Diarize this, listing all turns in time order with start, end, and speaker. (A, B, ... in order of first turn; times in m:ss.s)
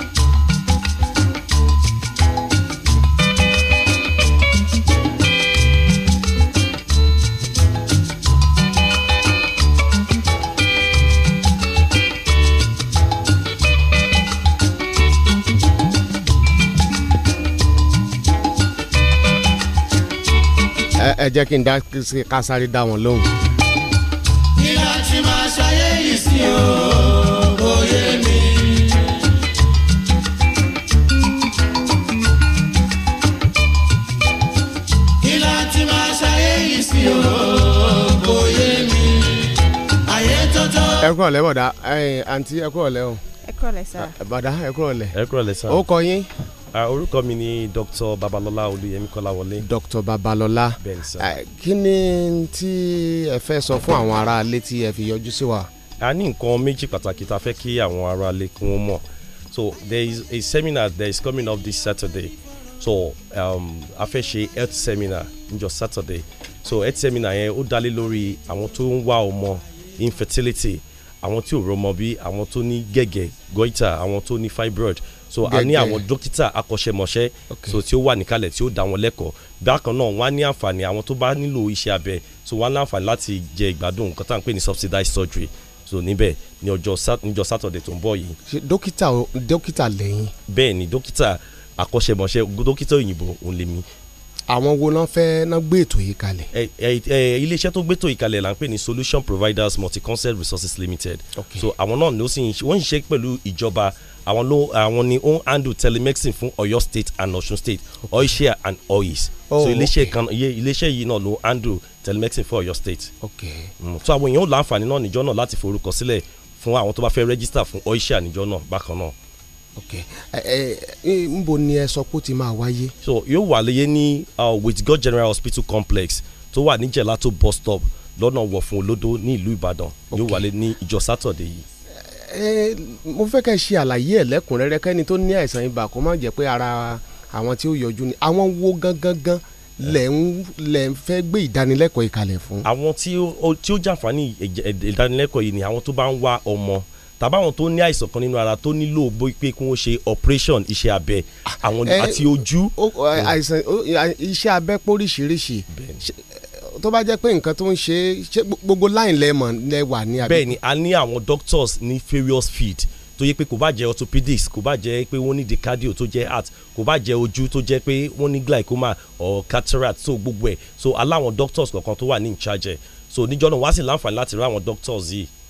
0:21.0-0:23.3 A
0:24.6-0:29.0 B
0:35.2-0:39.5 B
0:40.1-0:41.0 B
0:41.0-0:43.2 A
0:43.9-0:45.2 A
0:45.1-0:45.8 C
0:45.7-0:46.3 A
0:46.7-0:49.6 C
0:49.6-0:55.7 A
0:50.8-0:51.3 C
0:56.0-1:28.4 C
1:15.4-1:16.0 A
1:17.5-1:17.8 A
1:28.4-1:30.3 A
1:30.5-1:33.8 C
1:34.5-1:36.5 A
1:36.5-1:53.1 C
1:41.3-1:41.7 A
1:49.5-1:50.1 A
1:53.2-1:53.7 A
1:53.8-1:59.1 C
1:59.8-2:02.9 A
2:03.0-2:11.6 C
2:10.1-2:10.4 A
2:12.3-2:22.7 A
2:22.6-2:33.3 C
2:31.7-2:40.5 A
2:35.7-2:36.0 C
2:40.2-2:55.3 C